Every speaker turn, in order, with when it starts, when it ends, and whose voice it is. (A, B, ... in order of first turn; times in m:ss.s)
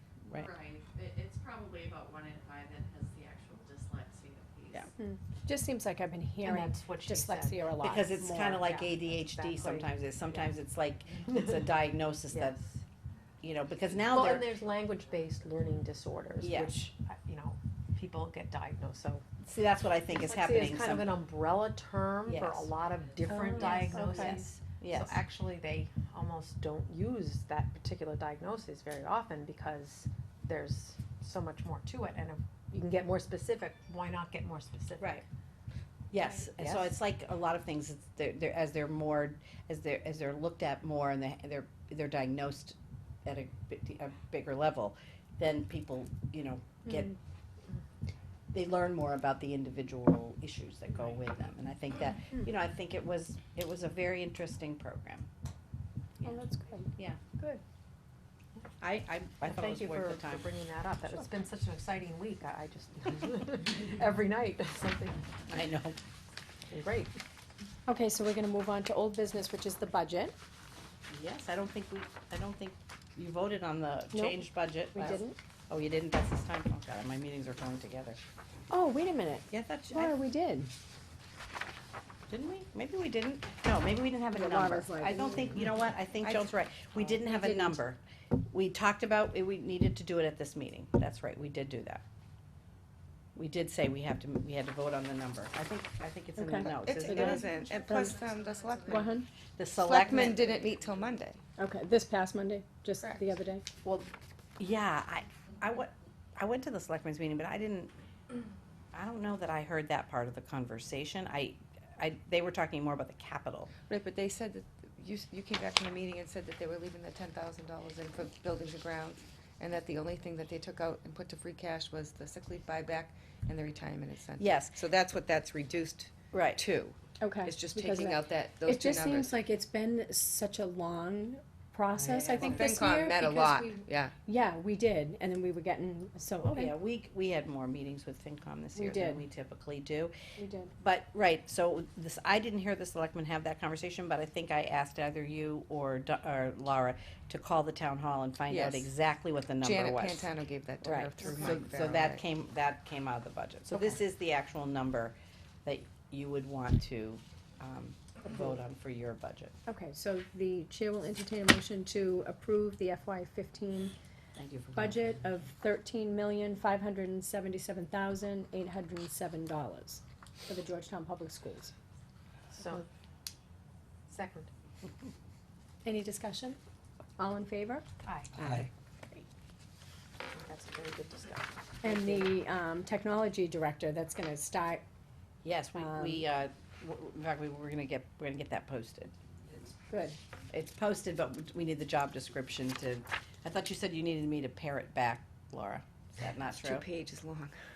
0:00.2-0:00.5 A
0:00.4-0:04.9 B
0:05.0-0:08.6 C
0:06.4-0:10.5 D
0:07.8-0:12.6 A
0:11.1-0:11.8 D
0:12.3-0:12.8 D
0:13.4-0:14.5 A
0:14.0-0:19.2 D
0:16.4-0:16.7 A
0:19.4-0:21.1 A
0:20.1-0:35.2 D
0:22.2-0:22.7 A
0:23.2-0:24.4 C
0:23.4-0:25.2 A
0:35.0-0:35.2 A
0:36.1-0:47.2 A
0:36.4-0:36.9 D
0:48.5-0:55.3 A
0:56.2-0:57.6 C
0:58.8-1:00.5 A
0:59.4-1:05.3 D
1:05.5-1:06.0 A
1:06.7-1:07.1 D
1:07.9-1:10.3 C
1:11.1-1:18.2 A
1:14.1-1:15.4 C
1:18.7-1:20.7 C
1:19.5-1:20.2 A
1:22.3-1:28.0 A
1:24.3-1:27.8 C
1:28.5-1:32.0 A
1:33.4-1:37.5 A
1:36.4-1:38.2 C
1:36.8-1:39.0 E
1:38.8-1:39.3 C
1:38.9-1:40.8 A
1:39.8-1:41.4 E
1:41.6-1:43.6 C
1:43.8-1:47.9 A
1:48.9-1:53.7 A
1:53.9-2:09.3 E
2:04.4-2:04.8 A
2:06.3-2:06.6 A
2:07.2-2:16.8 C
2:12.0-2:12.7 A
2:12.5-2:14.1 E
2:16.4-2:20.1 A
2:18.7-2:19.2 C
2:20.4-2:20.7 C
2:20.8-2:39.5 A
2:28.5-2:28.8 E
2:29.6-2:32.2 E
2:39.6-2:43.9 C
2:44.4-2:45.5 A
2:44.7-2:51.7 C
2:52.5-2:52.8 D
2:54.1-2:54.5 D
2:55.8-2:56.6 C
2:57.2-2:57.8 C
2:58.0-2:58.3 D
3:00.3-3:02.3 D
3:01.8-3:04.8 C
3:05.4-3:09.1 A
3:05.8-3:06.2 C
3:09.9-3:10.2 C
3:10.5-3:16.9 A
3:16.4-3:17.6 E